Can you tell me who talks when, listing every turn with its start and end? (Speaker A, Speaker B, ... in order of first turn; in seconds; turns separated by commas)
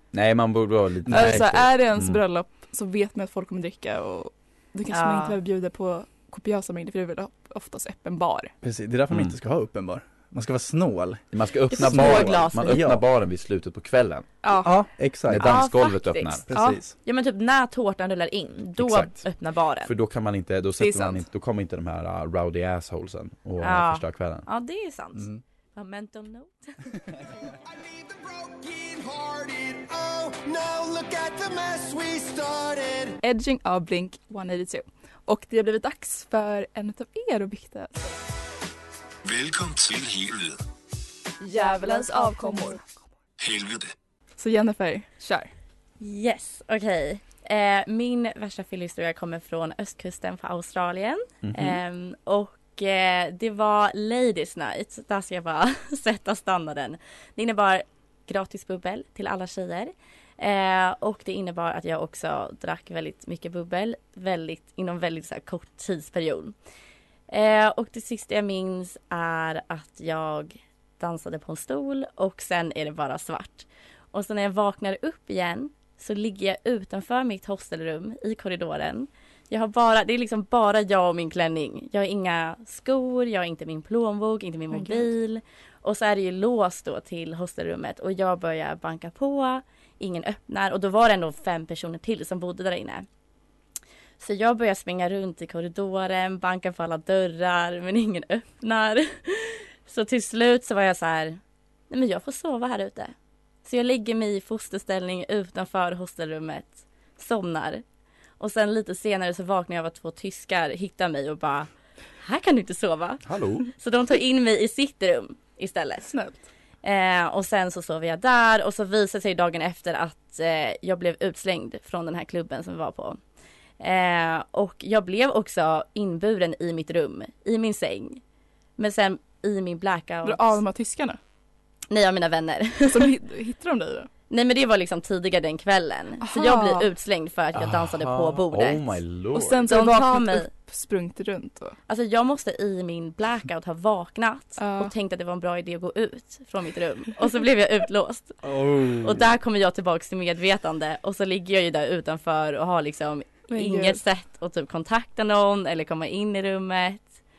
Speaker A: 0.1-2.2, Speaker B: 1.1-1.4, Speaker C: 1.1-8.5, Speaker D: 4.9-5.4, Speaker B: 8.6-11.2, Speaker A: 11.3-14.3, Speaker D: 11.7-12.8, Speaker B: 11.8-13.0, Speaker C: 14.4-14.7, Speaker B: 14.6-15.6, Speaker A: 15.3-16.4, Speaker D: 15.4-19.9, Speaker B: 16.5-16.9, Speaker C: 16.5-16.8, Speaker A: 18.8-19.2, Speaker A: 19.8-24.4, Speaker C: 20.8-21.2, Speaker D: 23.6-27.0, Speaker B: 25.1-25.4, Speaker E: 27.6-33.2, Speaker C: 33.2-38.2, Speaker E: 39.2-40.6, Speaker C: 41.4-42.9, Speaker E: 43.4-43.9, Speaker C: 44.4-45.5, Speaker D: 46.0-66.5, Speaker A: 51.4-51.8, Speaker D: 67.3-93.0, Speaker C: 84.7-85.1, Speaker D: 94.2-101.4, Speaker D: 101.9-103.1, Speaker D: 103.6-107.8, Speaker D: 108.4-111.7, Speaker D: 112.2-116.1, Speaker A: 113.2-113.7, Speaker C: 116.0-116.4, Speaker D: 116.8-123.2, Speaker D: 123.8-128.2, Speaker D: 128.8-130.6, Speaker C: 130.2-131.2, Speaker D: 131.9-133.1, Speaker C: 132.8-134.1, Speaker D: 134.3-139.0, Speaker C: 136.2-136.9, Speaker A: 137.5-139.7, Speaker C: 139.3-141.7, Speaker D: 139.7-140.5, Speaker D: 141.9-157.0, Speaker C: 144.6-144.9, Speaker B: 148.4-149.2, Speaker C: 153.5-154.0